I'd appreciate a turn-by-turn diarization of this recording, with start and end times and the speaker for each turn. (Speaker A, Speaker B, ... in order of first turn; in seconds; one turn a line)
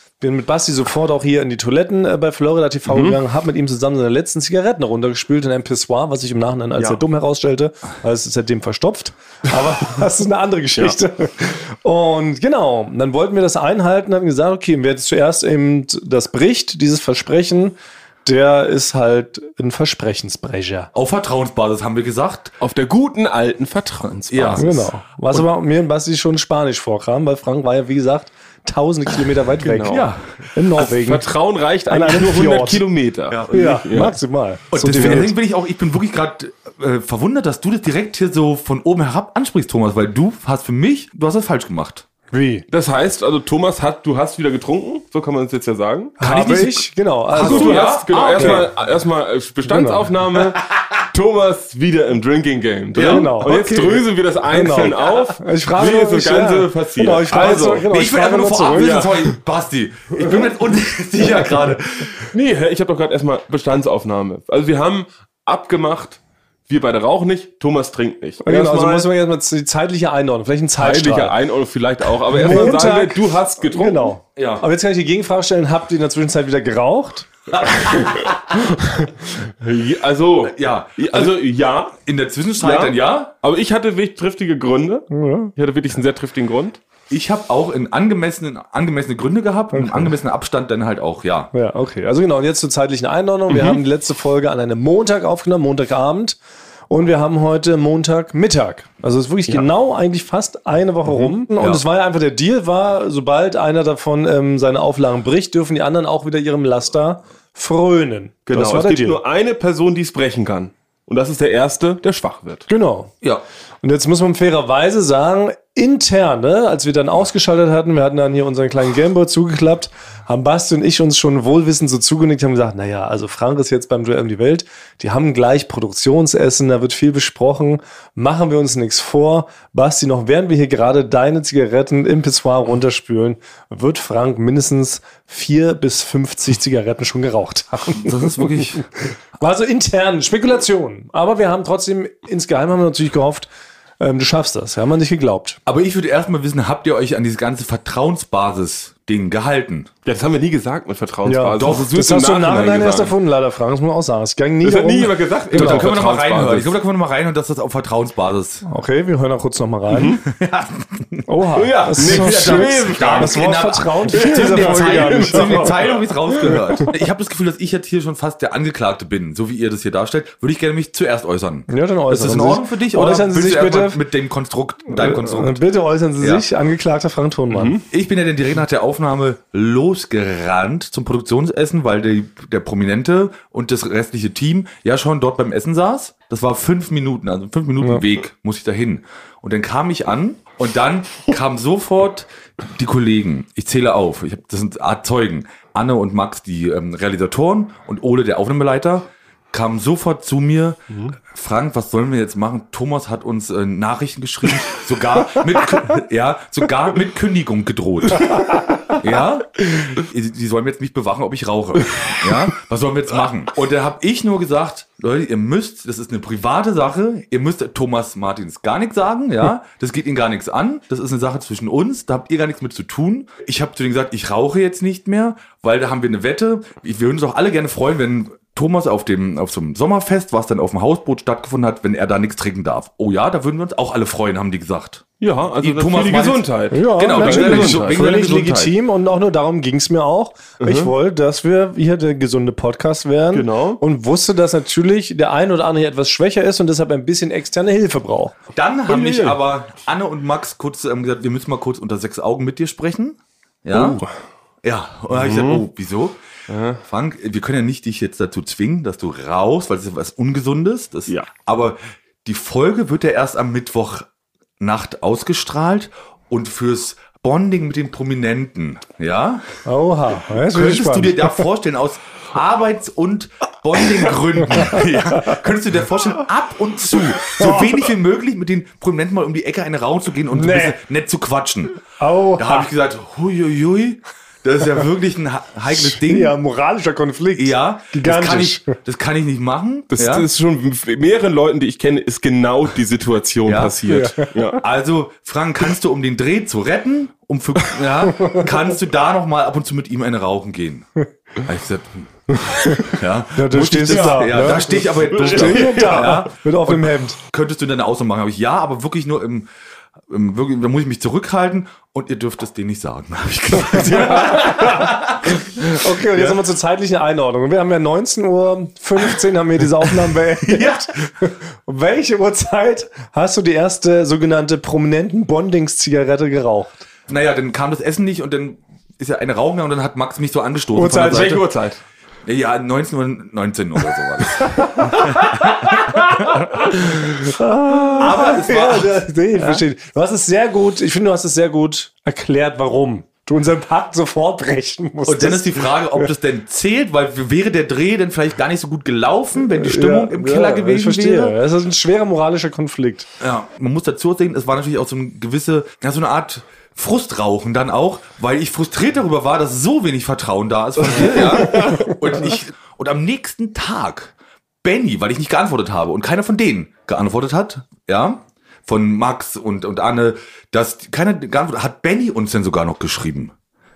Speaker A: 0.2-20.9
Speaker B: 2.9-3.2
Speaker C: 20.9-22.5
Speaker B: 22.6-24.7
Speaker C: 24.0-24.9
Speaker A: 24.6-31.3
Speaker B: 29.6-30.1
Speaker C: 29.9-30.2
Speaker B: 30.8-34.2
Speaker A: 31.9-32.8
Speaker C: 33.3-33.6
Speaker A: 33.5-35.3
Speaker C: 34.7-42.0
Speaker A: 42.3-42.6
Speaker B: 42.7-46.1
Speaker A: 46.2-48.7
Speaker C: 46.2-48.7
Speaker B: 47.4-57.8
Speaker A: 49.6-50.1
Speaker C: 52.9-53.3
Speaker A: 53.0-59.3
Speaker C: 57.3-62.3
Speaker B: 62.3-69.1
Speaker A: 68.4-71.3
Speaker B: 70.8-74.1
Speaker A: 72.3-77.3
Speaker C: 74.3-74.6
Speaker C: 77.5-78.4
Speaker B: 78.6-82.0
Speaker C: 80.4-81.4
Speaker C: 82.0-83.3
Speaker B: 82.6-86.8
Speaker A: 85.1-85.5
Speaker C: 87.1-91.5
Speaker A: 89.7-90.1
Speaker A: 91.5-96.4
Speaker B: 93.5-93.8
Speaker A: 96.9-109.2
Speaker B: 108.5-112.7
Speaker A: 112.7-113.1
Speaker A: 113.8-138.8
Speaker C: 137.9-138.8
Speaker A: 139.4-145.6
Speaker C: 145.7-149.9
Speaker B: 150.0-153.1
Speaker A: 151.2-155.9
Speaker C: 151.6-151.9
Speaker B: 154.6-156.7
Speaker C: 155.5-158.6
Speaker A: 158.6-160.2
Speaker B: 159.9-160.2
Speaker C: 160.2-175.6
Speaker A: 161.3-165.7
Speaker B: 161.6-163.4
Speaker B: 164.1-166.6
Speaker A: 166.3-166.9
Speaker A: 171.7-174.0
Speaker A: 174.9-177.8
Speaker C: 176.2-176.4
Speaker B: 177.5-177.8
Speaker C: 177.9-208.4
Speaker C: 208.9-235.0
Speaker B: 235.2-238.7
Speaker C: 235.6-238.4
Speaker A: 236.7-248.3
Speaker B: 240.6-240.9
Speaker B: 243.3-243.8
Speaker C: 248.5-254.0
Speaker B: 248.9-249.4
Speaker B: 253.7-254.1
Speaker C: 254.6-256.2
Speaker B: 255.1-255.6
Speaker B: 256.5-256.8
Speaker C: 256.8-264.1
Speaker C: 264.6-269.4
Speaker A: 269.6-271.4
Speaker C: 270.3-281.8
Speaker A: 274.5-275.3
Speaker A: 277.3-277.7
Speaker A: 280.3-280.8
Speaker A: 282.0-282.7
Speaker C: 282.4-286.4
Speaker A: 285.7-288.7
Speaker C: 287.4-290.3
Speaker B: 289.9-294.6
Speaker C: 293.4-293.8
Speaker A: 293.9-294.5
Speaker C: 294.6-300.9
Speaker A: 298.2-298.4
Speaker C: 301.4-309.5
Speaker A: 302.6-307.2
Speaker B: 303.9-306.2
Speaker C: 310.1-315.4
Speaker A: 313.7-326.8
Speaker C: 320.4-320.9
Speaker C: 327.1-331.4
Speaker A: 330.7-331.4
Speaker B: 330.9-331.8
Speaker C: 332.2-336.6
Speaker A: 334.4-346.1
Speaker C: 338.0-339.5
Speaker C: 345.1-351.4
Speaker A: 349.4-353.1
Speaker C: 353.2-373.3
Speaker B: 360.9-361.9
Speaker A: 361.1-361.7